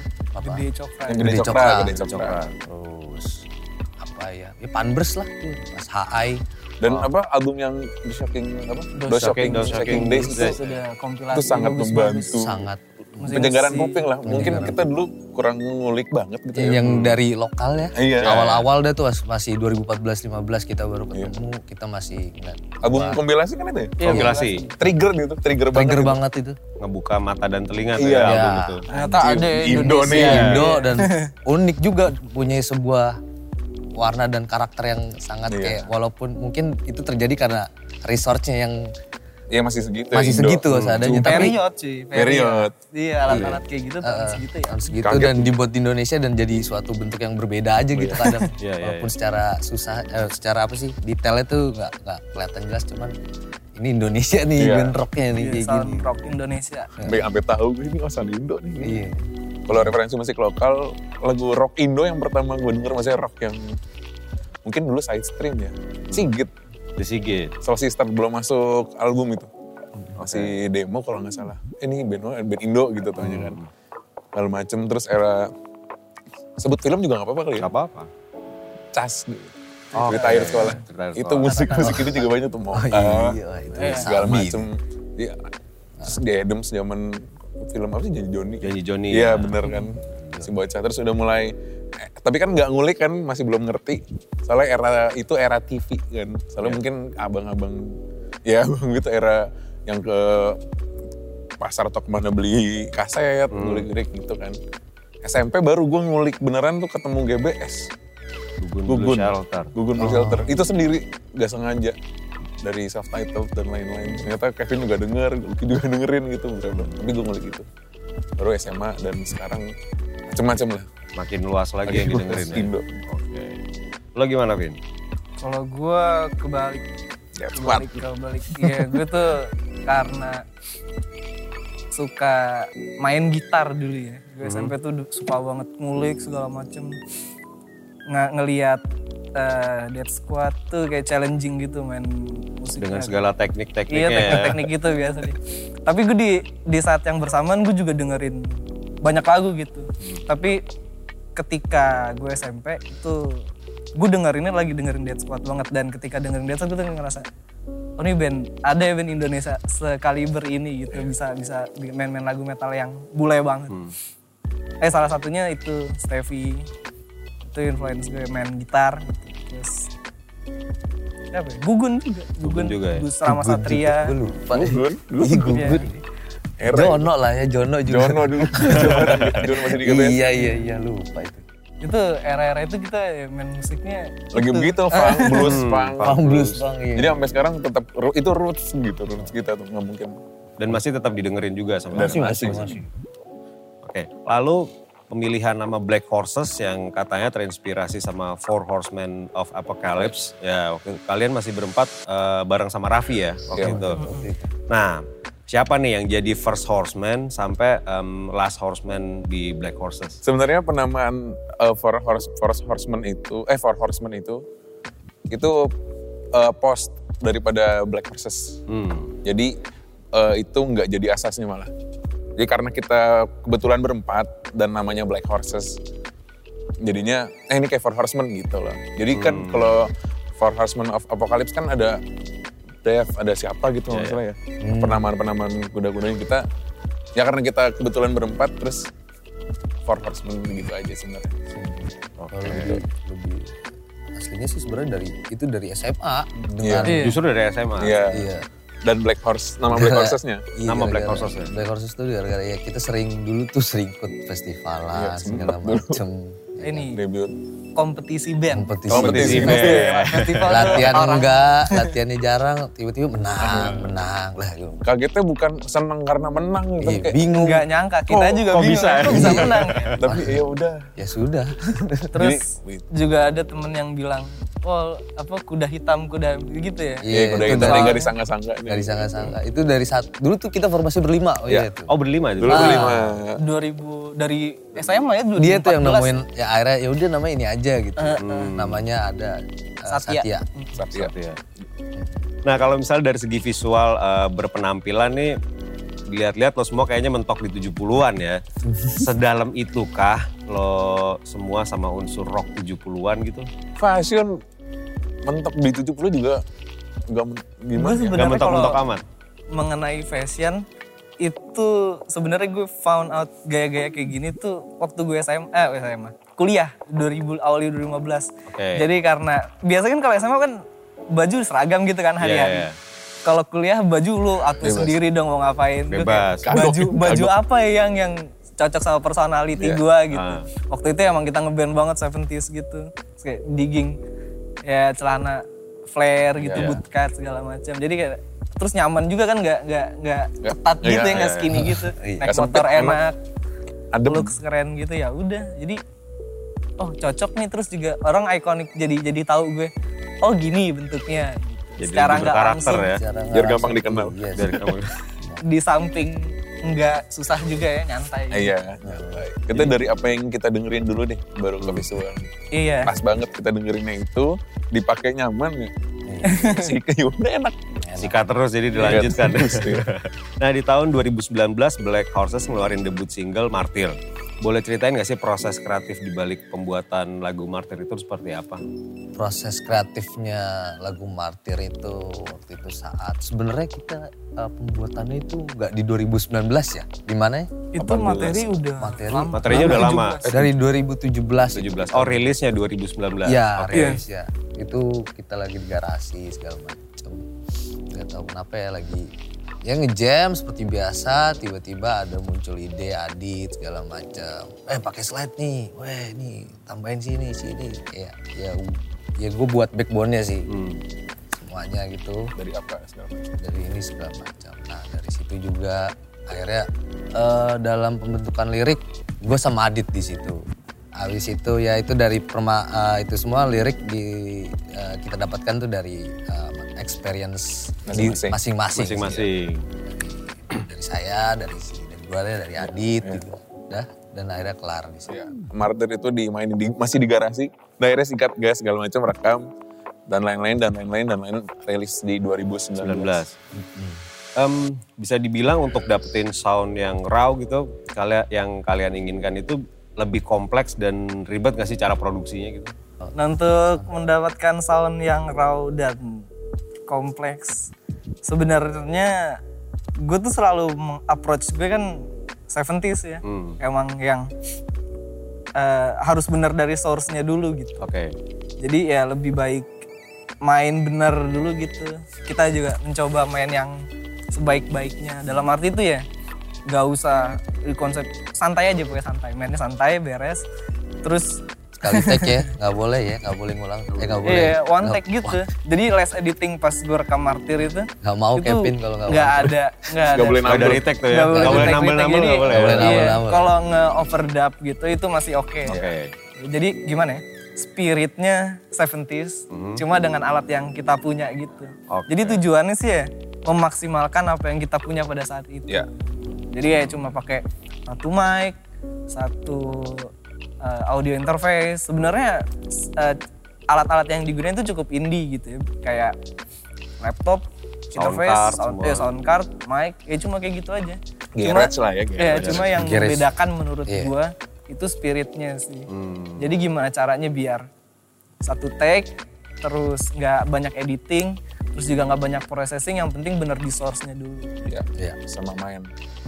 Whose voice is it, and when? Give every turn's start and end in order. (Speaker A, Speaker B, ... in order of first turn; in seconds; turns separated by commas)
Speaker A: 0.3-3.5, Speaker B: 0.4-1.5, Speaker C: 1.1-2.4, Speaker D: 1.8-2.5, Speaker A: 4.0-6.4, Speaker C: 6.8-10.6, Speaker B: 8.9-12.5, Speaker D: 9.1-10.8, Speaker C: 11.3-12.6, Speaker A: 12.3-13.5, Speaker B: 13.2-14.1, Speaker C: 13.3-16.9, Speaker A: 14.2-14.8, Speaker A: 16.5-23.2, Speaker D: 16.8-17.2, Speaker C: 17.9-18.4, Speaker D: 18.2-18.7, Speaker C: 22.8-26.2, Speaker B: 24.0-24.8, Speaker D: 24.1-24.7, Speaker A: 24.1-24.4, Speaker A: 25.7-26.6, Speaker D: 26.8-28.8, Speaker C: 28.0-30.6, Speaker A: 28.1-28.8, Speaker B: 28.9-31.3, Speaker A: 29.8-33.2, Speaker D: 30.2-30.6, Speaker A: 34.0-38.9, Speaker C: 35.5-35.9, Speaker C: 39.5-41.6, Speaker A: 40.1-41.6, Speaker D: 40.7-41.1, Speaker B: 41.1-44.9, Speaker C: 42.1-42.7, Speaker A: 43.3-53.2, Speaker C: 43.3-43.6, Speaker C: 45.0-45.5, Speaker C: 48.0-48.3, Speaker B: 48.2-48.5, Speaker D: 48.6-49.1, Speaker A: 53.8-56.1, Speaker C: 54.6-55.0, Speaker B: 55.4-57.0, Speaker A: 57.0-57.2, Speaker C: 57.0-59.0, Speaker A: 58.8-59.9, Speaker C: 59.7-63.8, Speaker C: 64.7-66.5, Speaker D: 67.0-67.5, Speaker C: 67.6-69.5, Speaker D: 70.2-70.5, Speaker C: 70.2-73.6, Speaker D: 73.2-73.7, Speaker C: 74.3-75.5, Speaker C: 76.6-77.7, Speaker D: 77.6-78.1, Speaker C: 78.9-85.5, Speaker D: 80.0-81.7, Speaker B: 80.1-80.7, Speaker B: 81.5-82.0, Speaker A: 81.7-84.7, Speaker B: 83.8-84.1, Speaker C: 86.0-100.6, Speaker D: 88.6-89.6, Speaker B: 89.6-89.9, Speaker C: 101.6-104.6, Speaker D: 103.5-103.9, Speaker C: 105.2-107.9, Speaker D: 108.6-109.8, Speaker C: 108.9-112.0, Speaker A: 110.0-110.6, Speaker C: 112.6-117.7, Speaker C: 118.4-119.7, Speaker C: 120.3-120.9, Speaker D: 121.2-123.6, Speaker C: 121.9-122.9, Speaker D: 124.2-124.8, Speaker B: 125.4-126.8, Speaker C: 127.4-129.0, Speaker B: 127.5-130.4, Speaker B: 131.9-137.0, Speaker D: 134.4-134.7, Speaker B: 138.1-138.8, Speaker B: 139.3-143.2, Speaker D: 142.8-144.6, Speaker B: 143.9-150.6, Speaker B: 151.4-157.3, Speaker B: 158.0-163.8, Speaker B: 164.8-166.7, Speaker B: 167.5-169.9, Speaker B: 171.3-174.2, Speaker D: 172.4-173.1, Speaker A: 173.2-176.0, Speaker C: 174.5-175.8, Speaker B: 175.5-175.9, Speaker C: 176.6-177.1, Speaker A: 176.7-181.4, Speaker C: 177.9-180.2, Speaker B: 180.3-180.7, Speaker B: 181.8-185.6, Speaker C: 184.3-190.2, Speaker D: 185.4-186.6, Speaker A: 186.0-187.2, Speaker D: 190.6-192.8, Speaker C: 191.9-192.8, Speaker A: 191.9-192.9, Speaker D: 193.8-204.0, Speaker C: 203.5-203.8, Speaker A: 203.6-204.5, Speaker B: 204.0-204.3, Speaker D: 204.7-210.2, Speaker C: 210.2-214.4, Speaker C: 215.3-215.7, Speaker C: 216.3-218.6, Speaker D: 218.7-219.2, Speaker C: 219.2-219.5, Speaker C: 220.1-221.7, Speaker C: 222.4-225.8, Speaker C: 226.8-232.0, Speaker D: 229.1-229.9, Speaker C: 232.8-236.4, Speaker D: 233.9-234.2, Speaker A: 234.6-235.1, Speaker C: 237.2-238.9, Speaker C: 239.8-241.4, Speaker A: 241.5-243.6, Speaker D: 242.2-242.8, Speaker A: 244.1-247.1, Speaker C: 246.6-247.0, Speaker B: 246.8-247.2, Speaker D: 246.9-248.0, Speaker C: 247.8-248.3, Speaker A: 248.1-248.5, Speaker C: 248.8-250.5, Speaker A: 249.7-256.9, Speaker D: 250.7-251.5, Speaker C: 254.9-256.0, Speaker B: 256.6-257.0, Speaker C: 256.9-257.4, Speaker B: 257.8-261.9, Speaker A: 258.5-259.8, Speaker C: 258.9-260.1, Speaker D: 258.9-261.1, Speaker A: 260.5-264.8, Speaker C: 263.4-263.9, Speaker C: 264.8-267.2, Speaker A: 266.8-267.7, Speaker B: 267.4-270.0, Speaker C: 268.1-269.4, Speaker D: 268.5-269.9, Speaker A: 269.1-270.4, Speaker C: 269.9-270.9, Speaker A: 271.0-272.2, Speaker B: 272.1-278.1, Speaker C: 272.2-272.9, Speaker A: 277.0-278.0, Speaker C: 277.1-279.3, Speaker A: 278.7-281.9, Speaker D: 281.9-282.9, Speaker C: 282.4-283.4, Speaker A: 282.4-283.2, Speaker B: 283.4-286.1, Speaker A: 285.4-290.4, Speaker B: 288.0-288.5, Speaker D: 288.2-288.9, Speaker B: 289.9-290.8, Speaker C: 290.8-291.1, Speaker D: 290.9-291.4, Speaker D: 292.4-295.4, Speaker D: 296.1-298.4, Speaker A: 298.7-299.0, Speaker D: 298.9-303.5, Speaker C: 303.8-304.4, Speaker C: 305.2-306.4, Speaker C: 307.1-308.3, Speaker B: 307.8-308.8, Speaker D: 308.1-309.0, Speaker B: 309.5-310.6, Speaker B: 311.2-320.6, Speaker D: 318.5-318.9, Speaker B: 321.1-322.7, Speaker D: 322.2-322.8, Speaker B: 323.2-334.0, Speaker C: 324.6-325.0, Speaker D: 325.9-326.5, Speaker C: 326.4-327.3, Speaker C: 329.6-329.8, Speaker D: 330.1-330.5, Speaker B: 334.6-343.2, Speaker C: 336.4-336.7, Speaker C: 340.4-341.5, Speaker D: 341.1-341.5, Speaker A: 341.5-342.4, Speaker C: 342.2-343.0, Speaker C: 343.9-344.3, Speaker B: 344.1-345.8, Speaker B: 346.8-352.9, Speaker D: 351.8-353.0, Speaker A: 352.8-355.4, Speaker C: 353.3-354.2, Speaker D: 354.3-355.0, Speaker B: 355.4-358.6, Speaker C: 358.3-362.3, Speaker A: 358.8-359.2, Speaker B: 362.5-363.0, Speaker C: 362.8-365.7, Speaker A: 366.1-366.5, Speaker B: 366.2-366.8, Speaker C: 366.3-367.8, Speaker A: 367.8-368.2, Speaker D: 368.0-378.6, Speaker C: 368.8-369.8, Speaker A: 379.1-387.7, Speaker B: 387.7-390.5, Speaker C: 387.8-388.5, Speaker A: 388.8-392.4, Speaker D: 389.3-390.2, Speaker D: 391.5-394.0, Speaker A: 393.2-397.3, Speaker B: 393.7-394.0, Speaker A: 397.9-399.1, Speaker A: 399.6-410.5, Speaker D: 410.5-410.8, Speaker A: 411.3-412.3, Speaker C: 412.4-413.4, Speaker A: 413.4-420.4, Speaker A: 421.0-429.3, Speaker C: 427.9-428.4, Speaker D: 428.7-429.7, Speaker A: 429.8-435.2, Speaker C: 432.6-433.2, Speaker C: 435.1-439.5, Speaker C: 440.1-443.2, Speaker D: 442.8-443.4, Speaker A: 443.5-444.0, Speaker D: 444.4-452.7, Speaker B: 453.1-456.3, Speaker B: 456.9-457.7, Speaker B: 458.2-459.4, Speaker B: 460.0-464.3, Speaker D: 463.2-463.6, Speaker B: 465.6-467.8, Speaker D: 467.8-468.1, Speaker B: 468.6-469.7, Speaker B: 470.4-476.1, Speaker B: 476.7-480.4, Speaker B: 481.0-482.5, Speaker A: 481.8-485.4, Speaker B: 484.2-495.8, Speaker A: 488.0-489.6, Speaker C: 490.0-490.9, Speaker D: 490.4-493.2, Speaker A: 491.3-491.8, Speaker A: 492.4-493.5, Speaker D: 495.7-496.1, Speaker C: 495.7-495.9, Speaker B: 496.4-508.6, Speaker D: 499.5-499.8, Speaker D: 501.9-502.4, Speaker B: 509.1-510.1, Speaker B: 510.6-516.1, Speaker B: 517.0-525.9, Speaker D: 518.0-519.1, Speaker C: 521.4-522.9, Speaker D: 522.3-522.6, Speaker A: 522.7-523.3, Speaker A: 523.9-524.1, Speaker D: 525.9-526.5, Speaker B: 526.4-527.7, Speaker B: 528.4-529.1, Speaker B: 529.6-534.5, Speaker C: 534.6-535.9